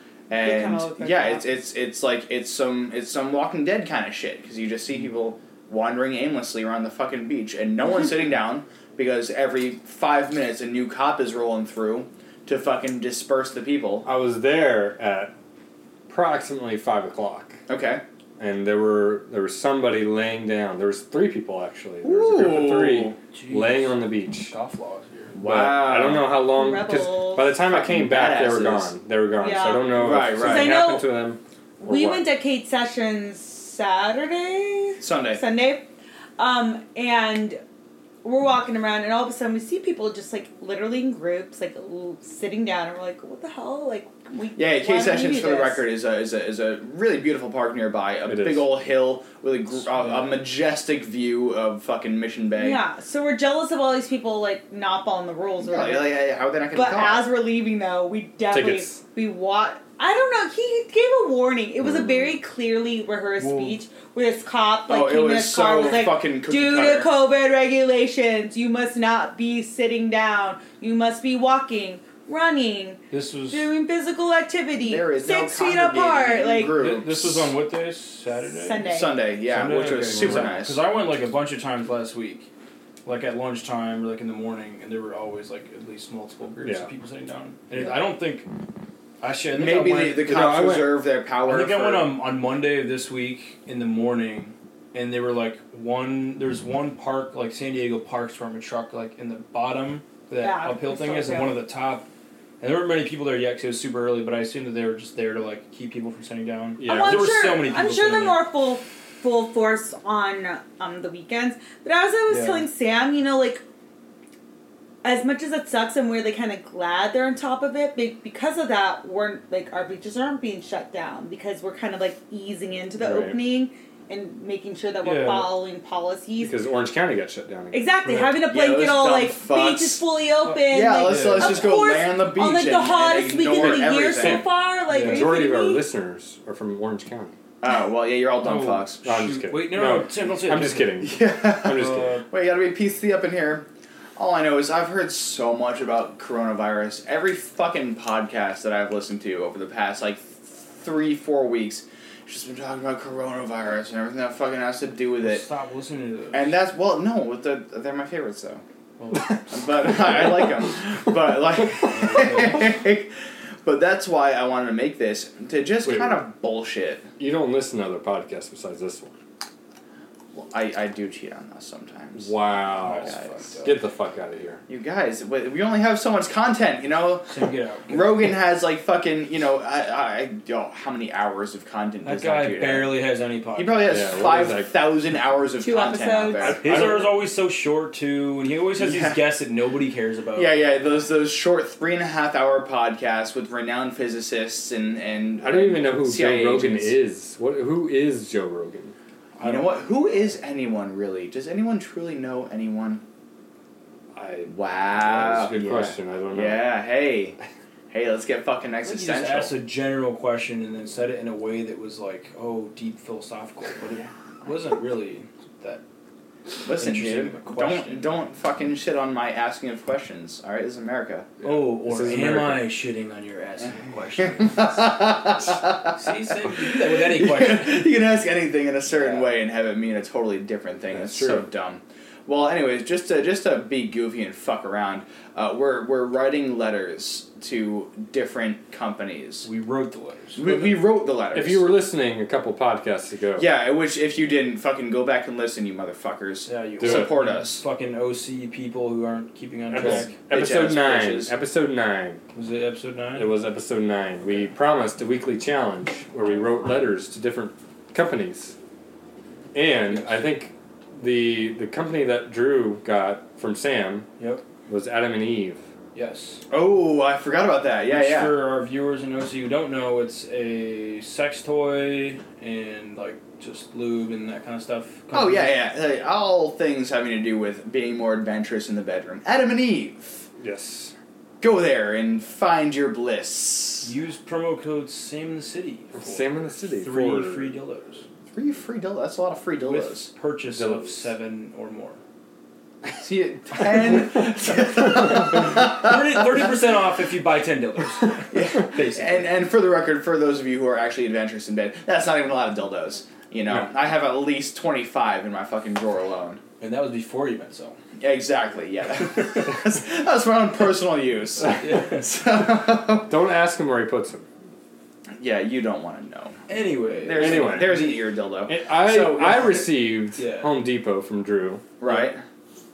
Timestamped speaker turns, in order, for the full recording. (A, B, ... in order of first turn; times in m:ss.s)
0:00.3-0:14.1 A
0:00.3-0:01.4 B
0:14.0-0:15.3 C
0:16.1-0:17.6 C
0:17.7-0:18.0 A
0:18.4-0:24.5 C
0:22.0-0:23.2 A
0:23.3-0:25.4 D
0:25.3-0:26.4 A
0:25.4-0:32.3 C
0:26.4-0:27.5 B
0:27.7-0:28.9 A
0:29.4-0:31.1 B
0:29.9-0:30.7 A
0:31.8-0:37.6 B
0:35.0-0:35.4 A
0:38.2-0:45.8 B
0:44.6-0:52.8 A
0:48.3-0:48.7 C
0:50.0-0:50.4 D
0:52.6-0:56.1 B
0:55.6-0:57.3 A
0:56.7-1:16.8 B
0:58.5-0:59.0 C
1:01.8-1:02.4 C
1:03.4-1:03.8 D
1:04.9-1:07.1 A
1:13.1-1:13.7 D
1:14.8-1:17.6 A
1:16.7-1:22.5 D
1:18.5-1:19.2 B
1:18.8-1:20.8 A
1:20.1-1:20.5 C
1:23.0-1:28.5 D
1:29.2-1:30.2 D
1:29.5-1:32.1 A
1:30.2-1:31.0 C
1:31.5-1:42.1 D
1:40.4-1:41.6 B
1:42.6-1:48.4 D
1:46.8-1:47.6 C
1:46.8-1:53.6 B
1:52.3-1:52.6 D
1:55.0-2:06.6 B
2:03.0-2:03.4 C
2:05.0-2:05.5 D
2:06.4-2:08.4 C
2:07.7-2:15.8 B
2:08.5-2:10.0 A
2:10.4-2:11.7 D
2:10.7-2:14.4 A
2:13.5-2:17.3 C
2:14.9-2:15.3 D
2:17.6-2:19.0 A
2:18.4-2:21.0 D
2:19.0-2:22.2 C
2:21.0-2:35.4 A
2:21.7-2:22.2 D
2:35.2-2:36.6 D
2:36.3-2:38.6 A
2:39.0-2:39.4 D
2:39.5-2:43.1 A
2:41.9-2:42.6 D
2:43.6-2:47.0 A
2:45.8-2:46.2 C
2:47.2-2:49.1 C
2:50.3-2:52.3 A
2:52.2-2:54.6 C
2:52.8-2:53.7 D
2:52.9-2:53.3 A
2:54.7-2:57.3 A
2:57.3-2:58.1 D
2:57.9-3:03.0 A
3:02.0-3:04.1 D
3:03.5-3:07.0 A
3:03.9-3:04.8 C
3:05.6-3:06.6 B
3:06.4-3:10.6 D
3:06.6-3:07.1 C
3:08.8-3:09.2 A
3:10.4-3:17.0 A
3:15.4-3:18.9 C
3:19.4-3:20.0 D
3:19.4-3:23.0 A
3:24.2-3:26.7 C
3:24.5-3:27.4 A
3:27.9-3:29.5 A
3:28.8-3:35.8 D
3:36.6-3:41.3 A
3:36.8-3:38.1 D
3:41.4-3:45.0 D
3:41.4-3:42.7 C
3:44.4-3:59.5 A
3:45.9-3:47.9 D
3:51.0-3:51.5 C
3:59.4-4:00.6 D
4:00.4-4:01.6 A
4:01.3-4:03.5 C
4:03.4-4:07.6 A
4:06.5-4:10.1 D
4:06.8-4:07.2 C
4:09.7-4:12.2 C
4:09.8-4:11.3 A
4:12.3-4:13.3 D
4:13.2-4:18.6 C
4:19.5-4:24.1 C
4:19.9-4:20.3 D
4:24.2-4:24.4 D
4:24.7-4:25.6 C
4:26.0-4:26.4 D
4:26.5-4:28.3 A
4:27.9-4:35.6 D
4:35.1-4:40.2 A
4:40.4-4:40.9 C
4:41.4-4:43.9 A
4:43.8-4:48.0 D
4:46.0-4:47.5 C
4:48.3-4:50.1 A
4:49.6-4:52.0 D
4:50.5-4:51.1 C
4:52.9-4:56.0 A
4:55.3-4:59.4 D
4:58.3-5:06.4 A
5:06.6-5:07.8 D
5:08.0-5:13.1 A
5:11.6-5:12.1 D
5:13.1-5:14.3 C
5:15.2-5:16.4 A
5:16.5-5:18.0 D
5:17.0-5:19.7 A
5:17.2-5:21.7 C
5:20.2-5:20.5 D
5:21.8-5:22.2 A